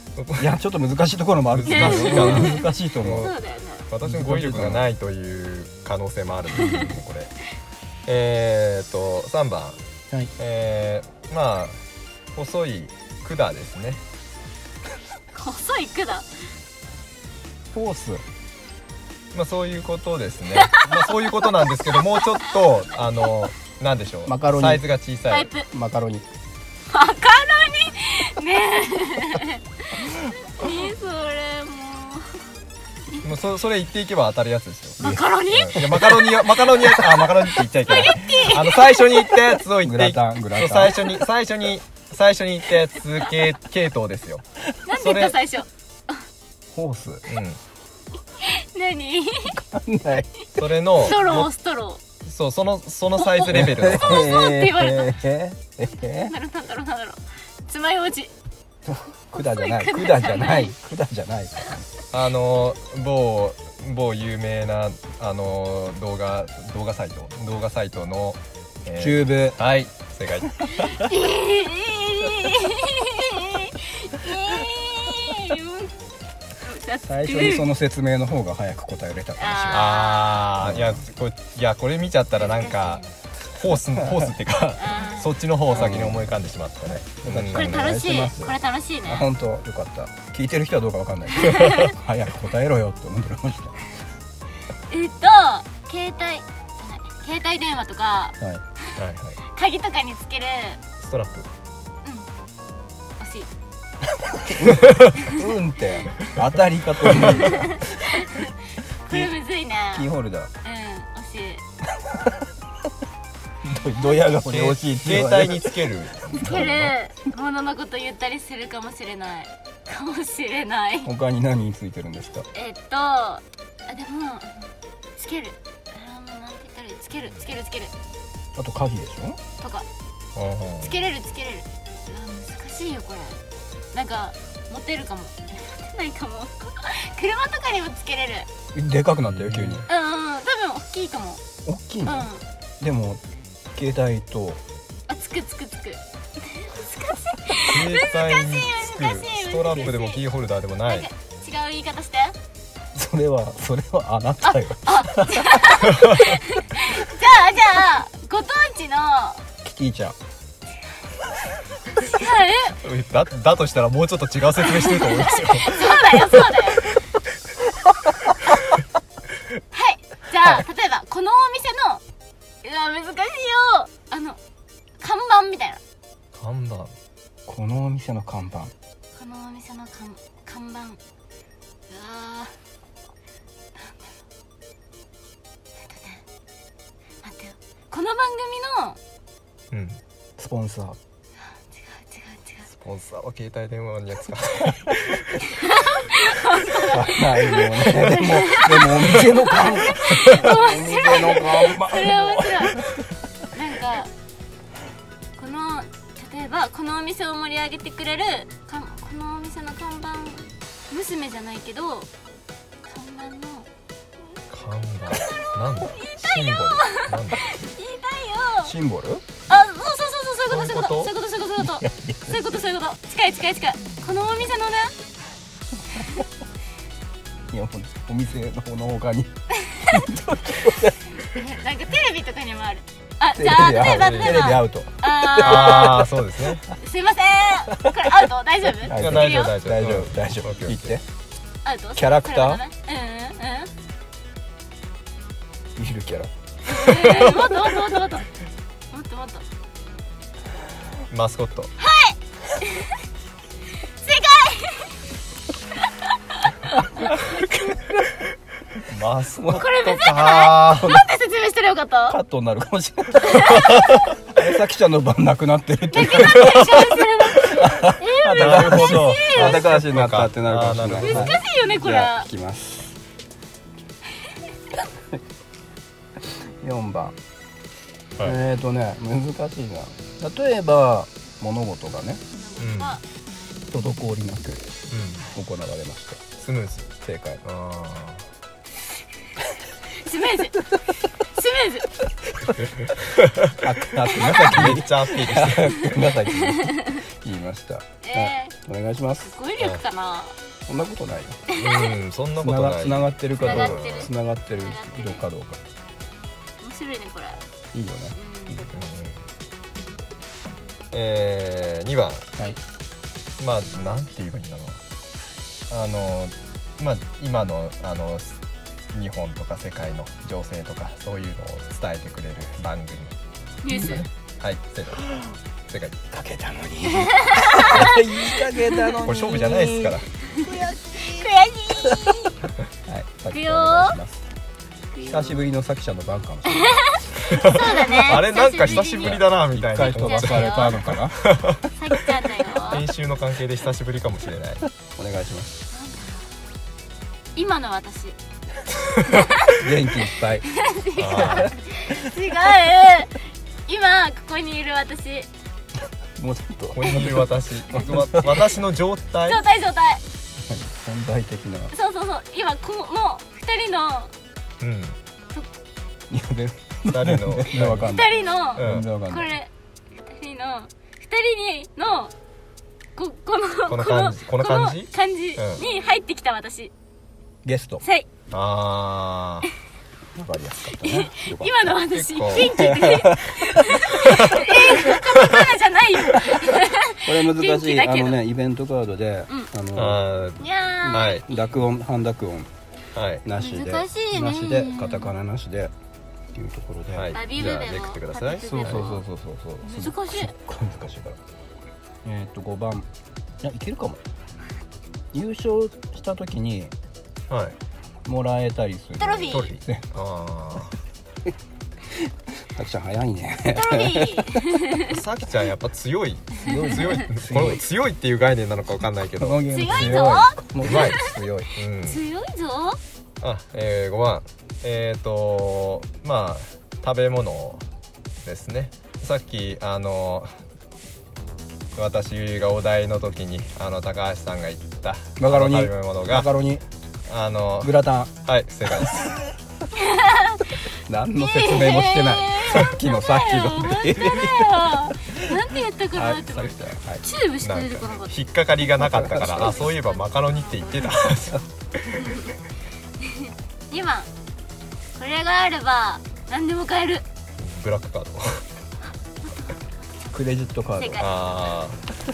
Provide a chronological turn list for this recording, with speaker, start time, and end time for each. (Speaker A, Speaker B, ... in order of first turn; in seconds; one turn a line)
Speaker A: 0.2-0.5
Speaker B: 0.4-3.3
Speaker A: 1.5-3.4
Speaker C: 1.7-3.9
Speaker A: 3.9-7.3
Speaker B: 4.0-4.9
Speaker C: 6.6-6.8
Speaker B: 6.6-7.0
Speaker A: 8.1-9.8
Speaker A: 10.4-11.8
Speaker A: 12.3-14.0
Speaker C: 15.3-16.3
Speaker B: 17.7-18.2
Speaker A: 19.3-25.5
Speaker C: 20.6-21.1
Speaker C: 21.9-22.5
Speaker B: 24.3-24.9
Speaker C: 25.3-25.7
Speaker B: 25.7-26.3
Speaker C: 26.9-32.5
Speaker A: 33.2-45.4
Speaker C: 35.0-39.5
Speaker B: 35.8-36.2
Speaker B: 39.8-41.2
Speaker C: 44.9-46.2
Speaker B: 46.7-47.3
Speaker A: 47.3-47.6
Speaker C: 48.4-49.6
Speaker B: 49.5-50.3
Speaker A: 50.6-51.5
Speaker C: 50.9-52.0
Speaker A: 52.2-54.5
Speaker C: 53.2-55.2
Speaker B: 53.4-56.3
Speaker C: 56.2-58.3
Speaker B: 58.9-61.9
Speaker C: 59.4-60.7
Speaker A: 62.1-70.9
Speaker B: 69.0-69.6
Speaker C: 70.7-76.0
Speaker C: 76.6-77.7
Speaker B: 77.0-80.0
Speaker C: 79.4-80.5
Speaker A: 79.7-87.9
Speaker B: 80.6-81.0
Speaker C: 82.4-83.1
Speaker B: 84.0-84.3
Speaker C: 84.8-85.9
Speaker B: 85.7-93.8
Speaker C: 87.5-89.3
Speaker C: 91.4-91.9
Speaker C: 94.9-98.4
Speaker A: 99.0-99.4
Speaker C: 99.4-100.8
Speaker A: 101.0-101.5
Speaker C: 103.2-103.5
Speaker B: 104.0-108.1
Speaker C: 105.2-105.4
Speaker A: 107.1-107.4
Speaker C: 107.4-110.1
Speaker B: 109.9-110.5
Speaker C: 110.6-111.6
Speaker B: 111.9-112.5
Speaker B: 113.6-115.9
Speaker A: 114.4-117.0
Speaker C: 116.4-121.1
Speaker B: 121.0-122.5
Speaker C: 122.5-127.9
Speaker B: 128.6-129.4
Speaker C: 129.6-129.9
Speaker A: 130.3-131.0
Speaker C: 130.8-133.4
Speaker C: 133.9-138.5
Speaker B: 138.7-139.9
Speaker A: 139.3-139.9
Speaker C: 139.9-141.4
Speaker B: 141.7-144.6
Speaker C: 142.0-142.4
Speaker C: 145.1-150.2
Speaker A: 147.6-151.1
Speaker C: 150.9-152.4
Speaker B: 152.9-155.8
Speaker C: 154.4-159.4
Speaker A: 155.9-156.2
Speaker B: 159.6-160.2
Speaker C: 161.9-162.8
Speaker A: 162.8-166.3
Speaker C: 164.7-167.0
Speaker C: 169.7-172.0
Speaker C: 172.6-174.4
Speaker C: 175.0-175.8
Speaker A: 176.3-176.9
Speaker B: 177.5-178.7
Speaker C: 179.2-181.0
Speaker C: 181.9-182.6
Speaker C: 183.8-184.1
Speaker C: 185.8-186.2
Speaker C: 187.2-189.0
Speaker A: 189.7-190.0
Speaker B: 190.4-191.0
Speaker C: 191.5-192.7
Speaker A: 192.7-195.4
Speaker C: 195.4-202.9
Speaker B: 196.8-203.1
Speaker C: 203.5-204.1
Speaker C: 205.4-212.1
Speaker C: 212.8-213.7
Speaker A: 214.5-217.6
Speaker C: 215.3-218.7
Speaker B: 218.6-219.2
Speaker C: 219.5-224.9
Speaker A: 220.5-221.2
Speaker B: 221.6-222.4
Speaker C: 226.0-226.2
Speaker B: 227.5-231.2
Speaker C: 229.6-230.0
Speaker C: 231.2-236.1
Speaker B: 233.3-236.2
Speaker A: 233.9-234.5
Speaker A: 235.4-236.7
Speaker C: 236.7-239.6
Speaker B: 237.7-238.1
Speaker B: 238.8-241.1
Speaker A: 238.9-240.9
Speaker C: 241.7-243.7
Speaker B: 241.9-242.6
Speaker B: 245.8-246.3
Speaker C: 246.7-248.3
Speaker C: 248.9-249.4
Speaker A: 251.1-251.7
Speaker C: 251.8-253.0
Speaker C: 254.0-254.9
Speaker C: 255.9-257.1
Speaker A: 257.1-258.2
Speaker A: 258.8-261.0
Speaker B: 259.3-259.7
Speaker C: 259.5-262.2
Speaker B: 262.1-273.0
Speaker C: 263.3-263.7
Speaker A: 263.7-264.1
Speaker C: 265.9-269.6
Speaker A: 268.3-271.4
Speaker C: 271.0-272.3
Speaker B: 274.9-275.2
Speaker B: 276.2-277.2
Speaker B: 278.2-282.2
Speaker C: 282.3-283.0
Speaker A: 282.6-283.0
Speaker B: 283.7-284.7
Speaker A: 284.9-285.3
Speaker B: 285.3-286.2
Speaker A: 286.4-288.2
Speaker B: 287.0-287.4
Speaker C: 289.8-291.9
Speaker A: 292.6-296.0
Speaker B: 293.6-299.4
Speaker C: 296.5-297.0
Speaker C: 298.0-298.6
Speaker C: 299.2-300.4
Speaker B: 300.7-301.5
Speaker C: 301.5-301.9
Speaker A: 301.5-304.1
Speaker B: 302.4-305.6
Speaker C: 303.4-305.2
Speaker C: 306.6-307.4
Speaker B: 307.7-308.5
Speaker C: 308.1-308.7
Speaker A: 308.7-309.2
Speaker A: 310.9-312.3
Speaker A: 313.4-314.8
Speaker A: 315.7-318.4
Speaker A: 318.9-323.1
Speaker C: 323.6-324.1
Speaker A: 323.7-325.1
Speaker B: 325.0-325.3
Speaker A: 325.7-326.0
Speaker B: 326.1-332.3
Speaker C: 326.9-328.1
Speaker A: 327.7-328.0
Speaker A: 328.9-330.1
Speaker C: 330.3-332.5
Speaker B: 332.9-334.2
Speaker C: 333.3-334.0
Speaker C: 334.9-335.5
Speaker B: 335.0-338.2
Speaker C: 336.5-339.2
Speaker A: 337.3-341.6
Speaker B: 338.7-341.3
Speaker C: 339.9-340.9
Speaker C: 341.8-342.9
Speaker A: 342.6-344.6
Speaker B: 344.9-345.6
Speaker C: 345.7-346.3
Speaker C: 347.4-348.2
Speaker C: 349.1-349.6
Speaker B: 349.5-350.5
Speaker C: 350.5-355.3
Speaker A: 351.0-351.5
Speaker B: 351.2-352.1
Speaker B: 356.1-358.5
Speaker A: 356.7-359.4
Speaker C: 359.2-360.0
Speaker B: 360.4-361.7
Speaker C: 361.7-364.1
Speaker A: 364.6-365.0
Speaker B: 366.1-369.4
Speaker A: 366.9-367.9
Speaker C: 367.9-369.5
Speaker A: 368.6-368.9
Speaker C: 370.1-372.1
Speaker C: 373.0-376.7
Speaker A: 373.7-375.6
Speaker B: 377.4-377.9
Speaker C: 377.8-378.1
Speaker A: 378.3-379.5
Speaker B: 380.1-381.8
Speaker C: 380.8-388.2
Speaker A: 381.9-382.6
Speaker B: 382.3-383.9
Speaker A: 384.0-385.5
Speaker B: 387.0-390.0
Speaker A: 389.8-391.2
Speaker C: 390.4-391.4
Speaker B: 390.8-392.5
Speaker A: 392.9-393.2
Speaker B: 393.2-395.7
Speaker C: 393.4-395.1
Speaker B: 396.3-397.2
Speaker A: 396.9-398.9
Speaker C: 397.1-399.1
Speaker B: 398.5-401.2
Speaker C: 399.6-400.3
Speaker B: 402.0-402.9
Speaker B: 403.4-404.0
Speaker B: 405.1-406.7
Speaker A: 407.3-407.6
Speaker B: 408.1-409.9
Speaker C: 409.0-409.5
Speaker A: 409.3-410.8
Speaker B: 411.9-414.5
Speaker C: 413.5-415.0
Speaker A: 414.8-421.0
Speaker B: 416.4-417.6
Speaker B: 419.2-421.5
Speaker C: 419.5-422.8
Speaker A: 421.6-422.0
Speaker A: 423.2-427.6
Speaker A: 428.2-430.4
Speaker A: 431.8-436.3
Speaker B: 435.2-436.6
Speaker A: 437.1-439.2
Speaker B: 437.6-438.1
Speaker B: 438.9-439.2
Speaker C: 439.7-440.6
Speaker B: 440.7-445.4
Speaker C: 441.2-448.2
Speaker B: 445.9-447.0
Speaker A: 447.4-452.2
Speaker B: 448.7-449.6
Speaker C: 449.5-451.1
Speaker C: 451.9-452.3
Speaker C: 453.0-454.1
Speaker C: 455.0-457.0
Speaker A: 457.4-458.5
Speaker B: 460.1-461.1
Speaker C: 460.8-461.1
Speaker A: 461.0-461.8